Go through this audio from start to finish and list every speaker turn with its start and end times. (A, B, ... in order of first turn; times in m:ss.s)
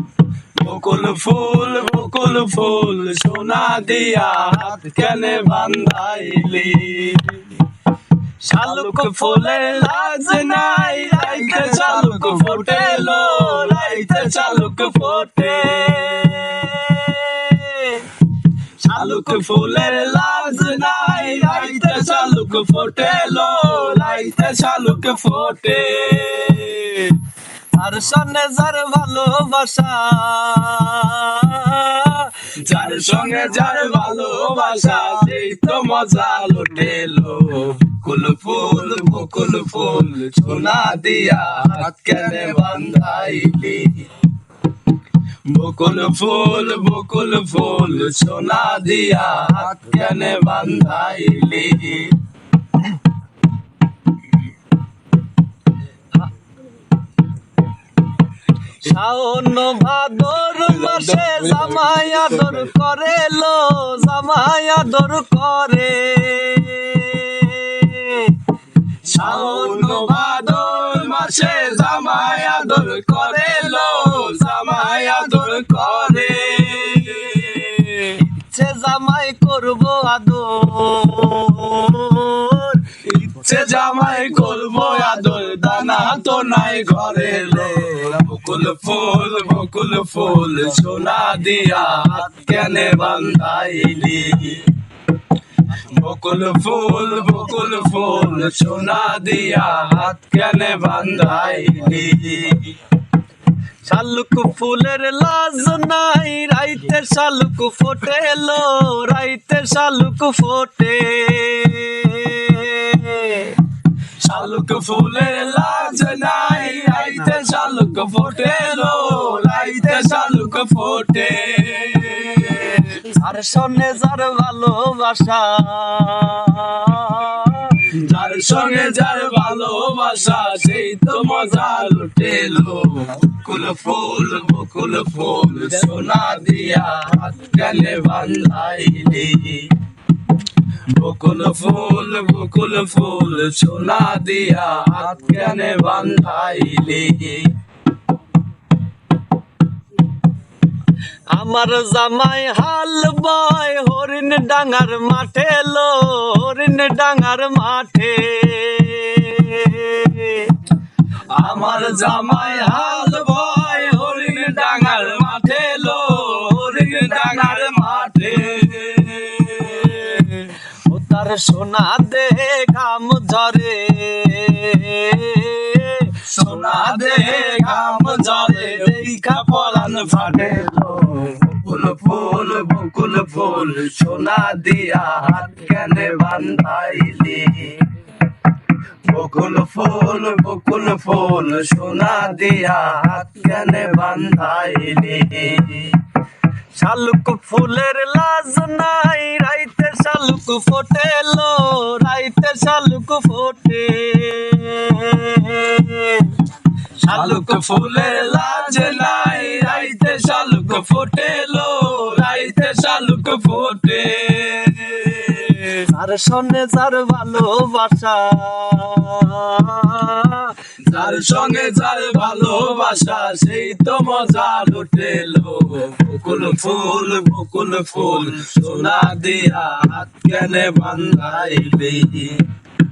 0:00.6-0:07.6 A
0:08.4-0:18.1 B
0:08.6-0:16.4 A
0:18.8-0:27.2 A
0:18.9-0:22.4 B
0:23.0-0:24.3 B
0:27.8-0:32.4 B
0:32.5-0:44.1 A
0:45.4-0:52.1 A
0:58.8-1:08.4 B
1:00.6-1:02.6 A
1:09.0-1:18.2 A
1:09.2-1:10.2 B
1:18.2-1:22.9 B
1:23.0-1:34.7 A
1:35.8-1:42.8 A
1:43.9-1:53.6 B
1:54.2-2:03.1 A
1:59.5-2:00.1 B
2:03.0-2:07.9 B
2:07.8-2:19.7 A
2:20.9-2:27.5 A
2:31.3-2:40.6 B
2:41.3-2:50.5 A
2:42.1-2:43.2 B
2:50.9-2:59.6 B
2:56.2-3:07.9 A
3:09.1-3:16.0 A
3:16.8-3:26.4 B
3:27.1-3:27.7 B
3:27.1-3:35.8 A
3:35.9-3:40.6 B
3:40.8-3:52.5 A